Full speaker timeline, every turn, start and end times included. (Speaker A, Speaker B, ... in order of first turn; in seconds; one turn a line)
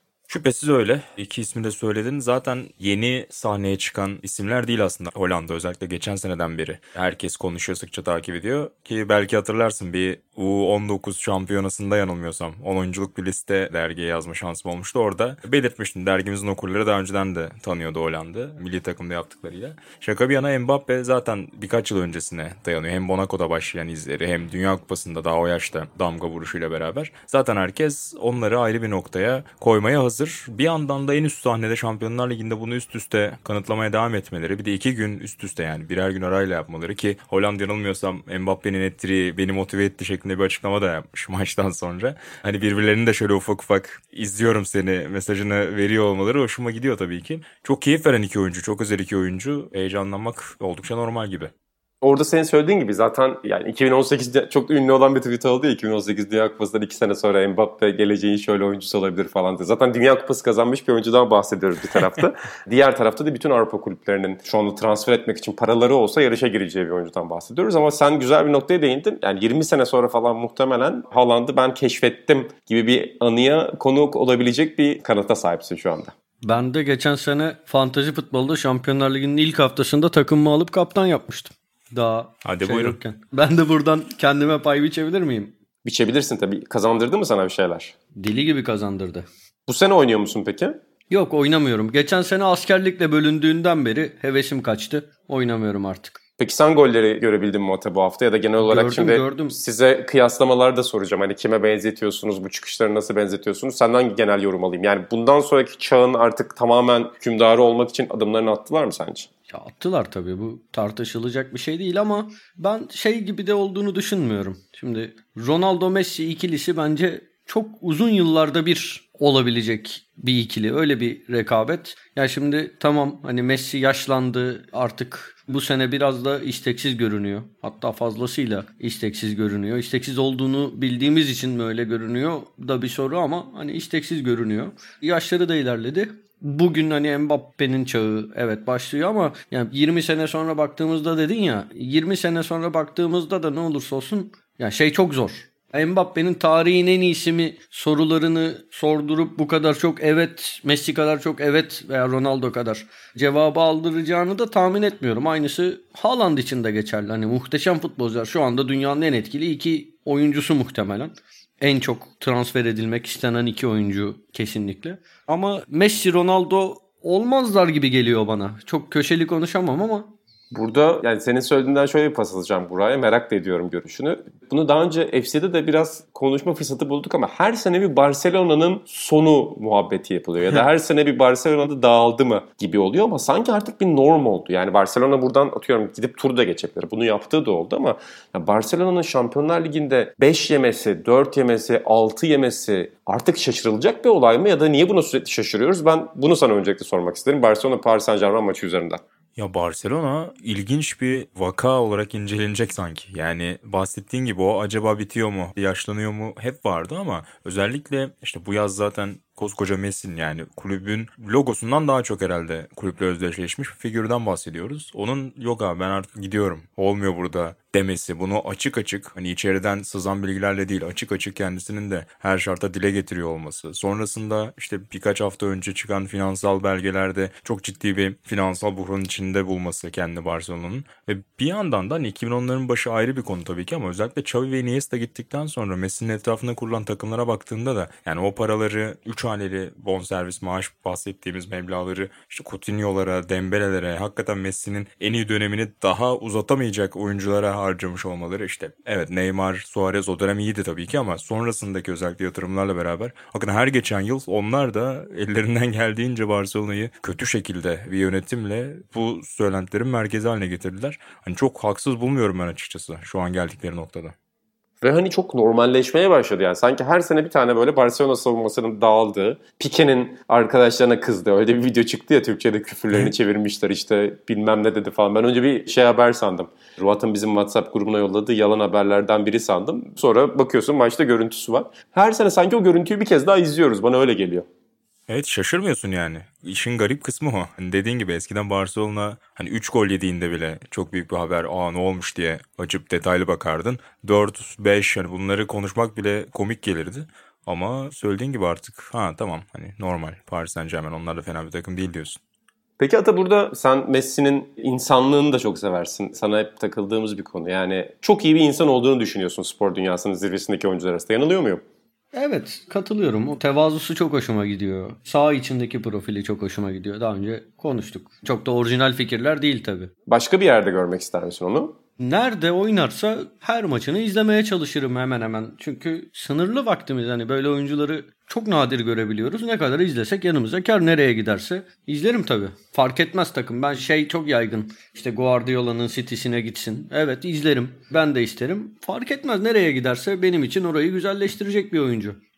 Speaker A: 0.3-51.5
Speaker B: 52.0-76.1
Speaker C: 76.4-85.5
Speaker A: 82.4-83.0
Speaker B: 85.8-87.9
Speaker C: 88.2-89.3
Speaker B: 89.7-90.8
Speaker C: 91.1-96.2
Speaker B: 96.4-109.3
Speaker C: 98.6-99.6
Speaker C: 109.5-170.1
Speaker B: 170.5-199.0
Speaker A: 199.3-264.1
Speaker B: 264.8-284.5
Speaker A: 285.1-302.2
Speaker B: 302.8-311.6
Speaker C: 312.1-319.9
Speaker B: 320.1-321.8
Speaker C: 322.0-342.2